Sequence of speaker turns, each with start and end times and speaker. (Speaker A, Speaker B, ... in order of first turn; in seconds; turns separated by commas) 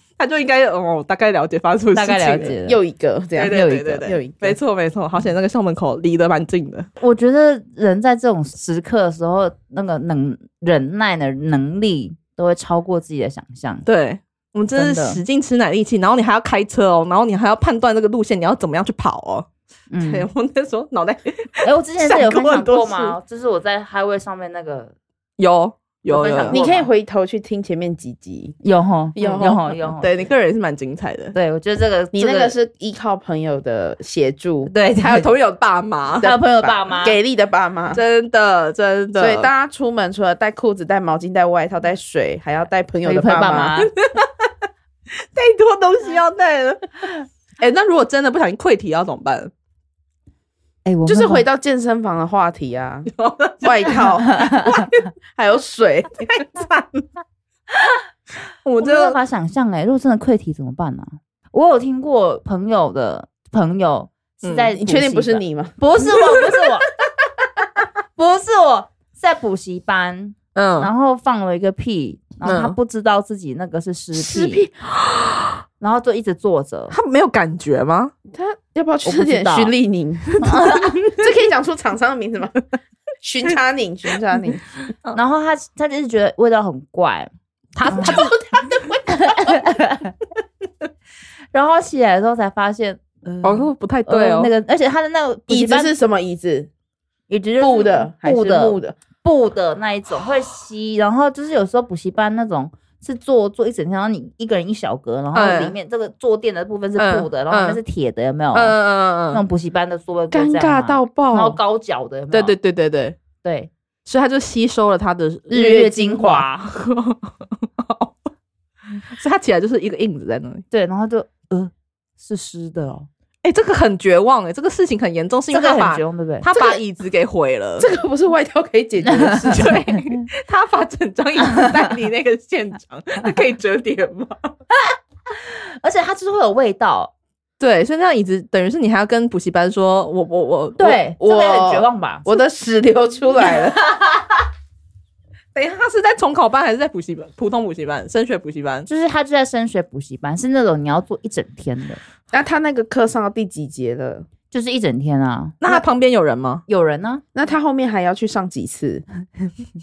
Speaker A: 0.2-2.5, Speaker B: 1.9-2.8, Speaker C: 2.6-4.6, Speaker A: 3.4-6.9, Speaker B: 3.5-4.1, Speaker B: 7.0-13.8, Speaker A: 13.9-19.5, Speaker B: 14.8-15.2, Speaker B: 19.9-20.3, Speaker A: 20.0-23.2, Speaker B: 21.6-24.9, Speaker A: 25.4-26.6, Speaker B: 26.1-26.9, Speaker C: 26.5-28.6, Speaker B: 28.6-30.1, Speaker C: 29.2-29.6, Speaker A: 29.2-31.4, Speaker B: 31.3-32.5, Speaker C: 32.1-34.7, Speaker B: 34.7-35.3, Speaker A: 35.0-36.3, Speaker B: 36.2-37.2, Speaker C: 36.2-38.0, Speaker A: 37.9-39.5, Speaker C: 39.2-43.7, Speaker B: 43.0-43.9, Speaker A: 43.8-44.5, Speaker A: 45.3-49.5, Speaker B: 50.9-51.5, Speaker C: 51.1-53.1, Speaker A: 53.1-54.9, Speaker C: 53.6-54.9, Speaker B: 54.2-54.9, Speaker C: 55.4-56.4, Speaker A: 56.3-57.0, Speaker A: 58.6-59.2, Speaker B: 58.8-66.9, Speaker A: 64.4-64.7, Speaker C: 64.8-65.8, Speaker A: 66.2-66.6, Speaker B: 68.2-74.7, Speaker A: 70.5-70.9, Speaker A: 72.4-72.8, Speaker C: 74.2-74.7, Speaker A: 75.0-75.6, Speaker B: 75.8-77.0, Speaker A: 76.9-78.1, Speaker C: 78.3-82.6, Speaker B: 79.0-79.7, Speaker B: 80.4-81.0, Speaker C: 83.2-84.7, Speaker B: 85.1-87.3, Speaker A: 87.8-88.3, Speaker B: 87.9-88.2, Speaker C: 87.9-89.5, Speaker B: 89.1-90.2, Speaker B: 91.5-95.9, Speaker A: 93.4-94.5, Speaker C: 95.5-96.7, Speaker B: 97.3-108.8, Speaker C: 97.6-99.0, Speaker A: 105.3-105.8, Speaker A: 107.0-107.8, Speaker A: 108.5-109.4, Speaker B: 109.3-112.6, Speaker C: 110.3-111.6, Speaker A: 112.3-113.2, Speaker B: 113.4-113.7, Speaker A: 114.1-118.2, Speaker B: 115.5-116.7, Speaker C: 115.6-116.0, Speaker A: 119.1-120.7, Speaker B: 120.7-123.1, Speaker A: 123.4-127.9, Speaker B: 125.5-126.5, Speaker C: 127.8-129.8, Speaker B: 129.1-129.7, Speaker A: 129.5-134.5, Speaker B: 135.5-137.1, Speaker A: 137.6-141.0, Speaker B: 140.8-142.3, Speaker C: 141.1-143.8, Speaker B: 143.8-144.4, Speaker A: 145.6-148.9, Speaker B: 148.9-152.0, Speaker C: 152.3-154.3, Speaker B: 154.5-155.8, Speaker A: 155.6-156.6, Speaker B: 156.7-157.2, Speaker C: 157.3-159.0